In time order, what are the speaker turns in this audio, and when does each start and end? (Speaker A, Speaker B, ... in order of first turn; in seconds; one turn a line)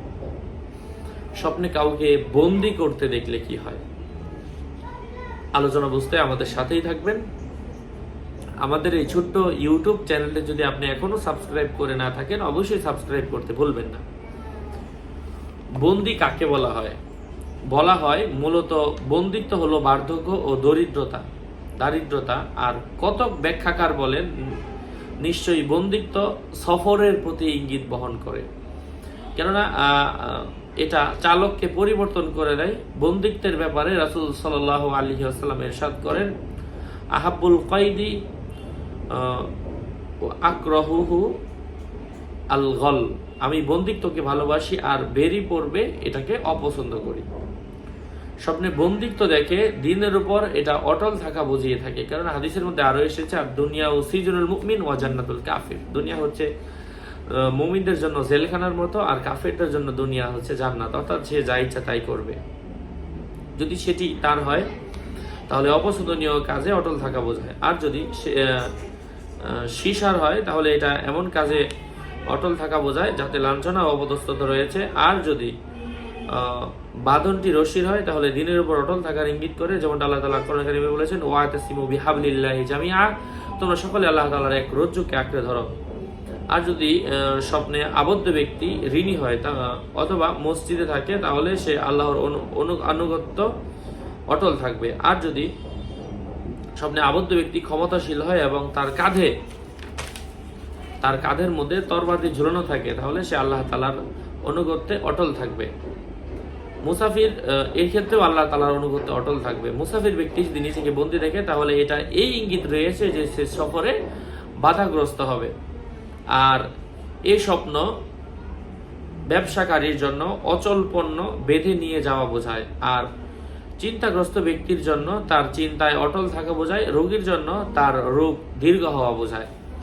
Speaker A: 1.4-3.8
Speaker A: 5.6-7.2
Speaker A: 8.6-14.0
Speaker A: 15.8-17.0
Speaker A: 17.7-21.2
Speaker A: 21.8-24.3
Speaker A: 25.2-28.5
Speaker A: 29.4-36.3
Speaker A: 37.1-38.1
Speaker A: 39.1-39.5
Speaker A: 40.3-41.3
Speaker A: 42.5-47.3
Speaker A: 48.4-56.5
Speaker A: 57.3-62.4
Speaker A: 63.6-64.7
Speaker A: 65.5-68.7
Speaker A: 69.4-71.6
Speaker A: 72.3-75.5
Speaker A: 76.3-85.7
Speaker A: 86.5-93.5
Speaker A: 94.3-95.5
Speaker A: 96.8-99.3
Speaker A: 101.0-105.7
Speaker A: 106.8-113.9
Speaker A: 114.6-115.5
Speaker A: 116.3-116.7
Speaker A: 117.3-117.9
Speaker A: 119.3-123.1
Speaker A: 123.8-129.5